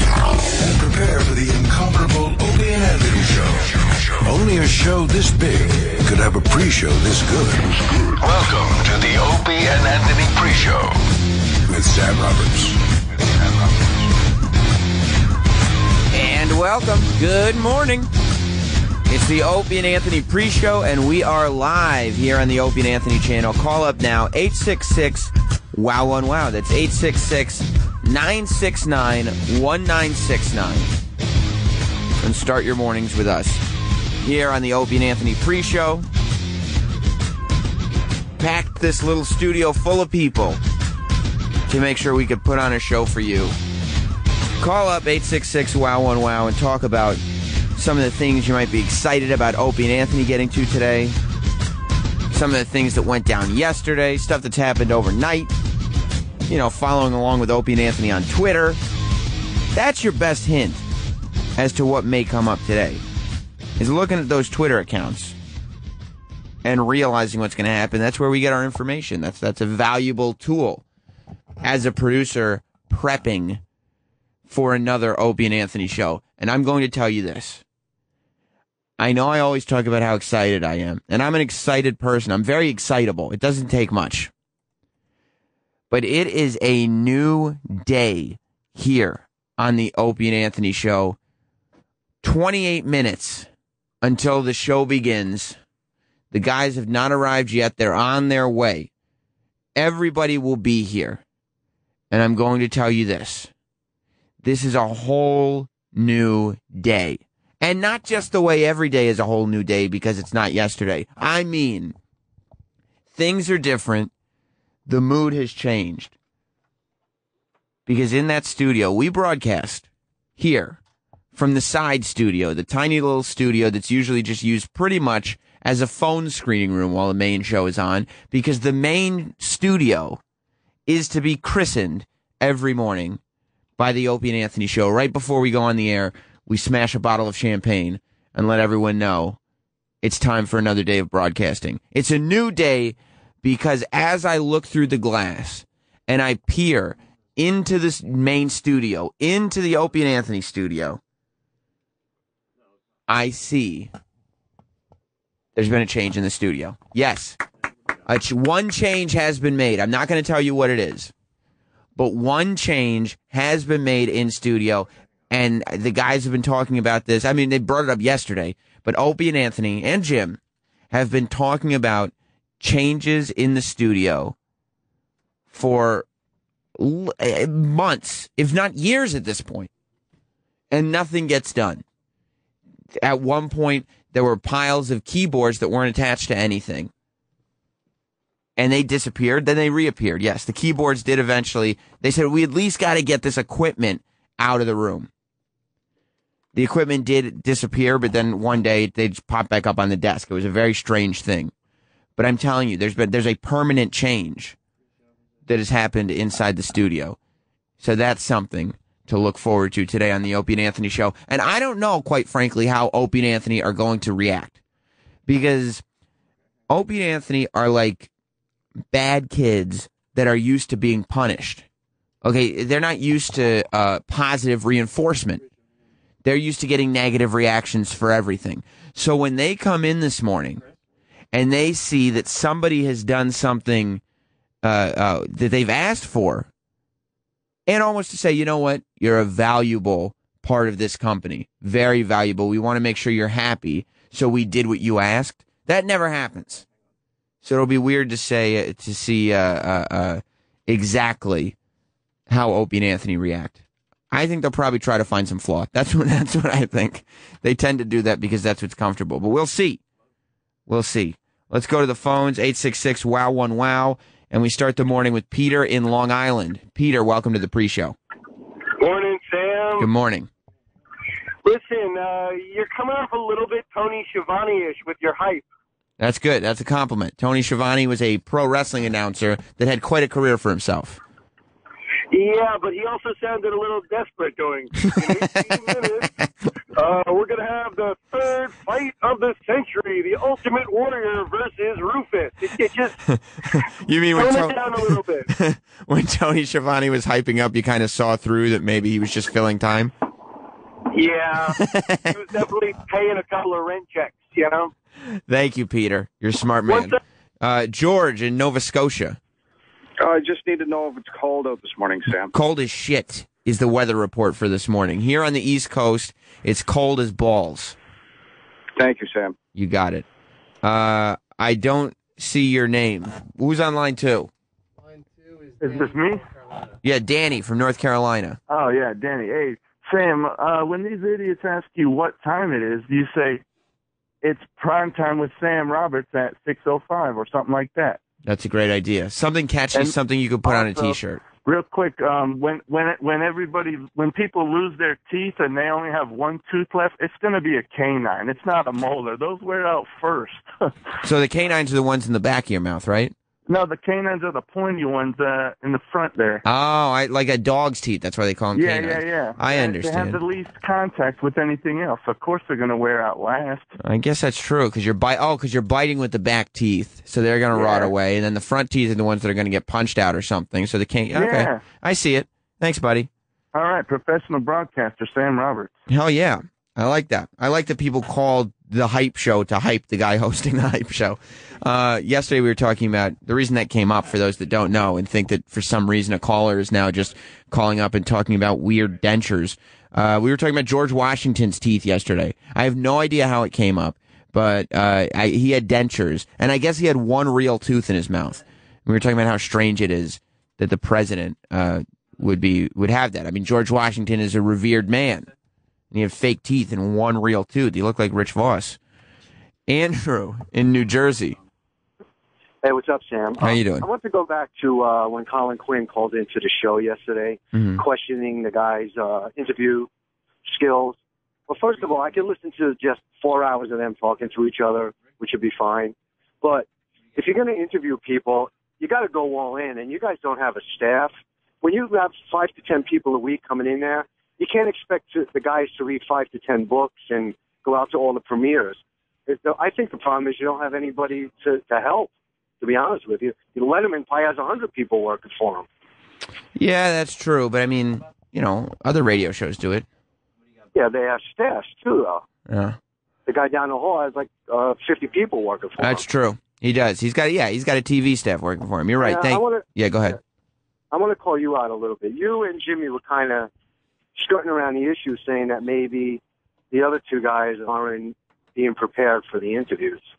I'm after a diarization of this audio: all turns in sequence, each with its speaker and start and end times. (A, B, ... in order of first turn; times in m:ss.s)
0:00.5-0:11.0 A
0:11.7-0:13.9 A
0:16.1-0:18.1 B
0:19.1-0:31.0 B
0:32.2-0:33.6 B
0:34.2-0:36.1 B
0:38.4-0:40.6 B
0:41.7-0:43.6 B
0:44.6-0:47.2 B
0:47.7-0:51.2 B
0:52.3-0:55.5 B
0:56.5-0:58.8 B
0:59.7-1:00.8 B
1:01.6-1:03.0 B
1:03.8-1:05.4 B
1:06.6-1:10.8 B
1:11.6-1:13.6 B
1:14.5-1:17.6 B
1:19.0-1:24.3 B
1:25.9-1:31.2 B
1:32.2-1:33.5 B
1:34.0-1:35.6 B
1:36.3-1:38.9 B
1:39.8-1:41.2 B
1:42.1-1:43.5 B
1:44.4-1:52.0 B
1:53.1-1:54.1 B
1:54.9-1:56.1 B
1:57.9-2:00.8 B
2:01.3-2:10.2 B
2:10.9-2:13.2 B
2:13.8-2:19.4 B
2:20.0-2:31.0 B
2:33.1-2:33.9 B
2:35.6-2:37.4 B
2:38.1-2:41.1 B
2:42.0-2:50.4 B
2:50.9-2:54.4 B
2:55.5-2:56.1 B
2:56.8-2:59.7 B
3:00.7-3:01.8 B
3:03.0-3:06.9 B
3:08.6-3:15.1 B
3:16.5-3:21.5 B
3:22.2-3:24.6 B
3:25.5-3:27.2 B
3:27.8-3:34.6 B
3:35.3-3:35.8 B
3:36.7-3:38.1 B
3:38.9-3:41.7 B
3:42.2-3:45.4 B
3:46.2-3:50.6 B
3:51.3-3:54.0 B
3:54.6-3:56.5 B
3:57.7-4:06.6 B
4:07.4-4:11.6 B
4:12.3-4:19.8 B
4:20.7-4:28.0 B
4:28.8-4:29.9 C
4:29.8-4:30.3 B
4:31.4-4:35.4 C
4:36.0-4:41.0 B
4:42.1-4:46.1 C
4:46.7-4:53.0 C
4:53.4-4:59.9 B
4:54.1-4:55.3 C
5:00.9-5:04.7 C
5:01.5-5:02.2 B
5:05.2-5:09.2 B
5:06.7-5:07.0 C
5:10.0-5:12.3 D
5:12.3-5:17.8 B
5:18.8-5:19.4 D
5:19.6-5:20.1 B
5:20.6-5:24.3 B
5:25.6-5:26.3 E
5:26.8-5:28.4 B
5:28.5-5:33.4 E
5:34.2-5:38.0 E
5:38.2-5:41.2 B
5:40.5-5:50.7 E
5:51.0-5:53.1 B
5:53.5-5:56.4 E
5:56.4-6:00.2 B
5:58.6-6:03.7 E
6:03.8-6:13.1 B
6:07.5-6:07.9 E
6:11.2-6:11.6 E
6:13.5-6:15.7 E
6:15.9-6:45.3 B
6:45.9-6:48.8 B
6:49.7-6:51.4 B
6:52.6-6:59.9 F
6:53.4-6:53.9 B
6:57.5-6:57.8 B
7:00.5-7:01.0 F
7:01.5-7:25.7 F
7:26.6-7:29.9 B
7:30.8-7:32.2 F
7:32.5-7:32.8 B
7:33.3-7:36.0 F
7:35.8-7:40.2 B
7:39.0-7:39.7 F
7:40.9-7:43.5 F
7:44.2-7:46.2 F
7:46.7-7:50.0 F